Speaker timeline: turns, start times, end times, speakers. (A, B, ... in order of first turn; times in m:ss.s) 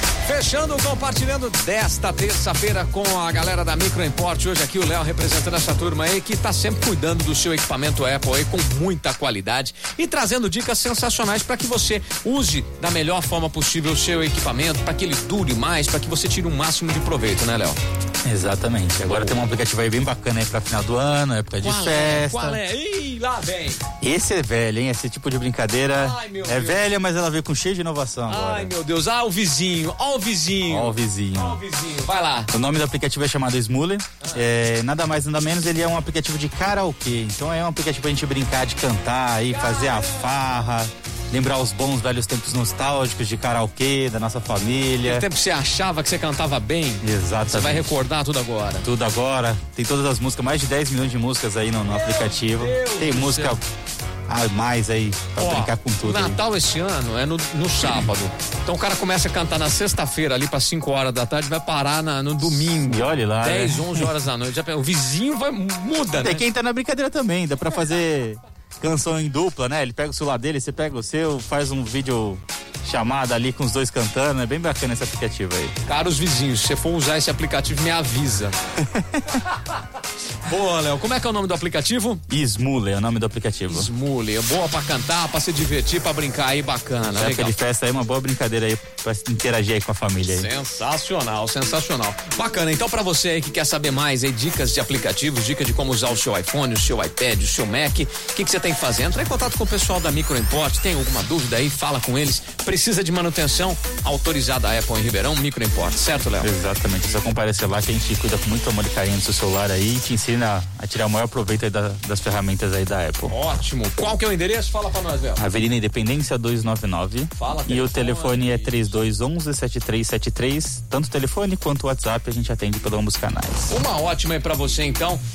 0:00.3-0:17.8 A
0:18.2-0:22.6 B
0:19.1-0:19.4 A
0:21.6-0:23.8 A
0:24.0-0:28.7 B
0:25.9-0:26.9 A
0:28.3-0:32.5 A
0:30.7-0:31.6 B
0:32.5-0:45.3 B
0:39.5-0:40.5 A
0:45.0-0:48.9 A
0:47.0-0:47.9 B
0:48.8-0:53.6 B
0:51.9-0:53.6 A
0:54.3-0:56.4 B
0:55.4-1:06.4 A
1:02.8-1:04.1 B
1:06.1-1:15.8 B
1:15.9-1:18.6 A
1:18.9-1:19.2 B
1:20.4-1:22.2 A
1:22.3-1:23.9 B
1:23.7-1:27.6 A
1:27.1-1:30.5 B
1:30.2-1:46.5 A
1:46.4-1:53.3 B
1:53.3-1:55.4 A
1:55.4-2:03.7 B
1:57.4-1:58.9 A
2:03.7-2:05.2 A